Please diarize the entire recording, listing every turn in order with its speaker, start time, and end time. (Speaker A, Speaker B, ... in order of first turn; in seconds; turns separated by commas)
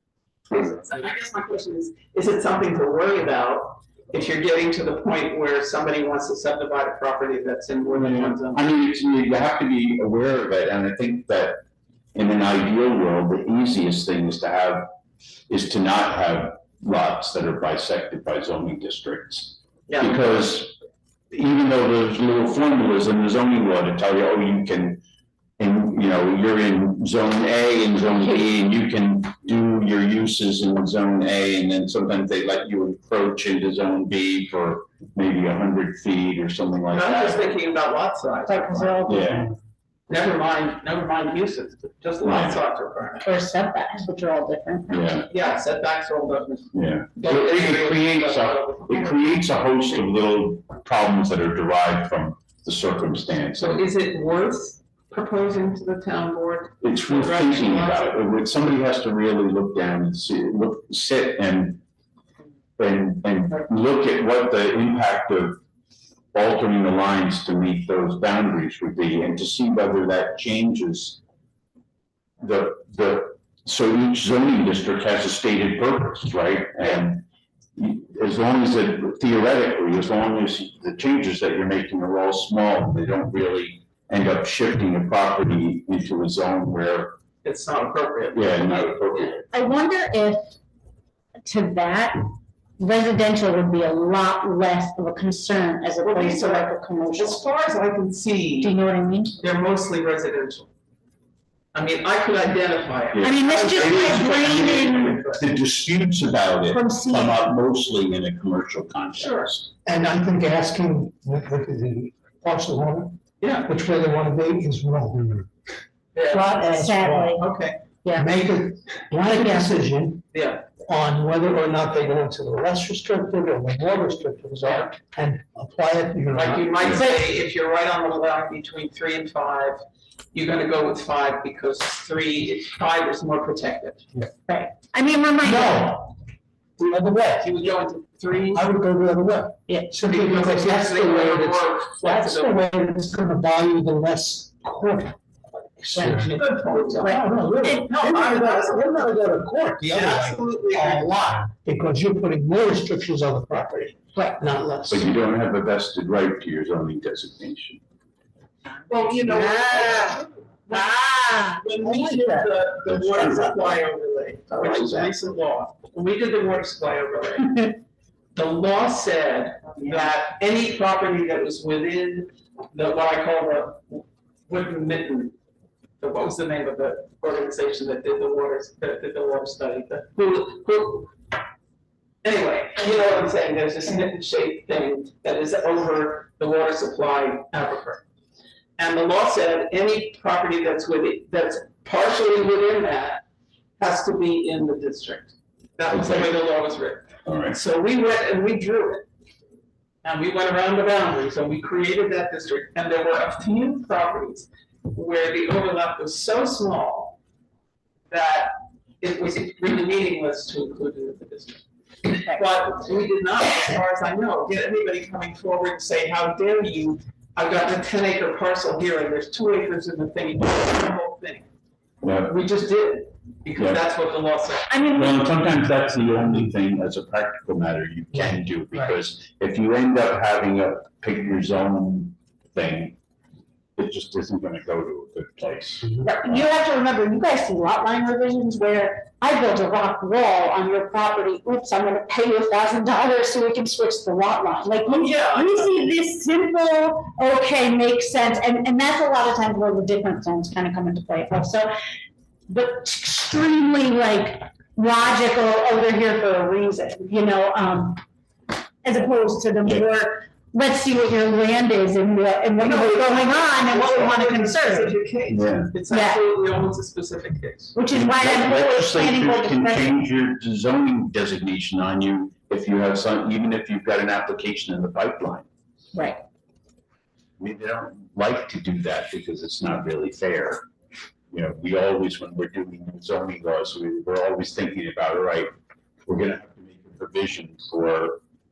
Speaker A: 0.5-8.6, Speaker B: 7.9-11.6, Speaker B: 12.1-14.9, Speaker B: 15.5-20.8, Speaker A: 19.9-20.2, Speaker B: 21.3-25.0, Speaker B: 25.6-37.5, Speaker A: 36.9-39.2, Speaker C: 38.5-39.5, Speaker B: 39.1-39.5, Speaker A: 40.1-43.3, Speaker B: 42.2-42.6, Speaker C: 43.2-45.1, Speaker B: 44.9-45.3, Speaker A: 45.3-49.4, Speaker B: 46.7-53.8, Speaker A: 53.6-58.2, Speaker B: 56.8-61.8, Speaker B: 62.8-65.6, Speaker B: 66.3-71.2, Speaker B: 72.4-87.2, Speaker A: 87.4-89.3, Speaker B: 88.3-89.5, Speaker C: 89.5-90.6, Speaker C: 91.5-97.4, Speaker A: 96.0-98.8, Speaker C: 98.6-99.3, Speaker A: 99.4-100.7, Speaker A: 101.7-105.4, Speaker B: 103.1-109.7, Speaker C: 103.2-105.2, Speaker C: 106.7-107.5, Speaker A: 109.2-109.5, Speaker D: 109.8-115.3, Speaker A: 113.4-113.7, Speaker A: 116.1-116.5, Speaker D: 116.3-117.4, Speaker C: 116.5-117.5, Speaker A: 117.4-117.8, Speaker C: 118.0-118.3, Speaker D: 118.2-120.2, Speaker C: 119.2-119.8, Speaker A: 120.3-120.7, Speaker D: 120.8-126.7, Speaker A: 126.3-129.8, Speaker C: 126.9-127.2, Speaker A: 130.3-134.1, Speaker C: 134.5-135.9, Speaker D: 135.4-136.2, Speaker D: 136.8-137.6, Speaker A: 137.4-138.6, Speaker D: 138.5-145.2, Speaker C: 139.7-140.0, Speaker A: 140.0-142.7, Speaker D: 145.8-155.1, Speaker C: 146.0-146.3, Speaker A: 146.3-147.2, Speaker C: 147.0-147.9, Speaker A: 147.8-149.1, Speaker A: 149.9-151.1, Speaker B: 154.9-157.8, Speaker A: 158.9-167.8, Speaker C: 159.1-160.2, Speaker C: 160.7-162.4, Speaker B: 162.8-163.8, Speaker B: 164.5-165.1, Speaker A: 168.3-175.3, Speaker A: 176.0-181.1, Speaker A: 182.2-188.0, Speaker A: 188.8-193.2, Speaker A: 193.8-199.1, Speaker B: 195.9-196.3, Speaker B: 197.2-197.6, Speaker A: 200.0-207.2, Speaker A: 208.1-221.5, Speaker B: 222.0-222.3, Speaker A: 222.3-224.7, Speaker C: 224.7-225.2, Speaker B: 224.9-233.0, Speaker B: 233.8-236.4, Speaker C: 236.0-251.7, Speaker A: 244.8-246.0, Speaker C: 252.5-258.0, Speaker C: 258.8-265.0, Speaker A: 262.6-267.8, Speaker B: 265.3-265.7, Speaker C: 265.9-266.2, Speaker C: 267.8-270.0, Speaker B: 267.9-275.5, Speaker C: 275.9-276.2, Speaker B: 277.4-280.7, Speaker B: 281.3-285.5, Speaker B: 286.1-288.2